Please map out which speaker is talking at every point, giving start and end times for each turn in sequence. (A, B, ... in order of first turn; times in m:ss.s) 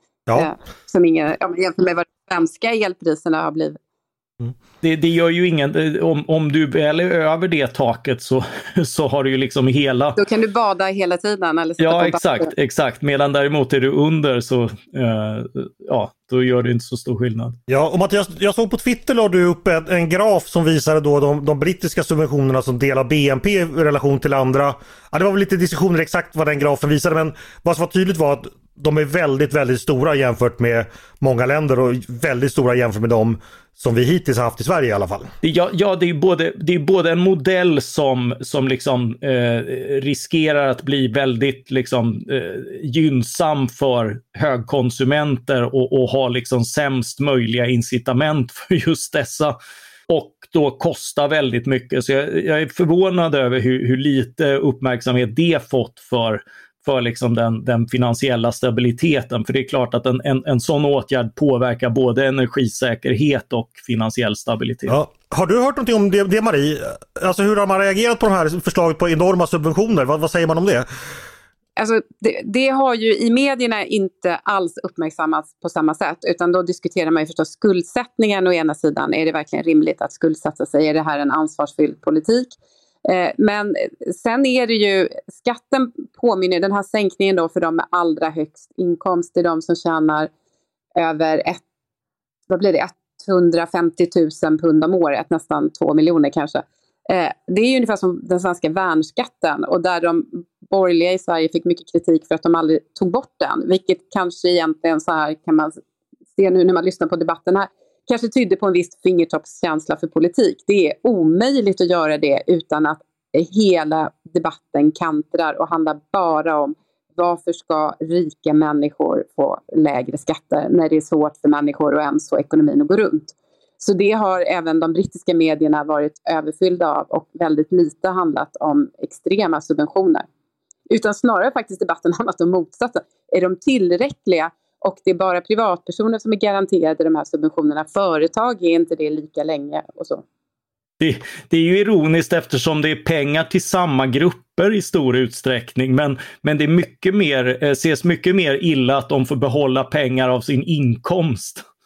0:00.4-0:03.8 A
0:04.8-0:10.2 B
0:10.2-0:12.5 A
0:11.8-0:17.6 B
0:17.7-0:35.3 C
0:35.4-0:49.6 B
0:50.1-1:04.9 B
1:04.9-1:10.8 C
1:11.8-1:30.3 A
1:30.9-1:31.6 A
1:32.5-1:45.8 A
1:46.4-2:10.2 A
2:10.9-2:20.2 A
2:21.0-2:31.6 B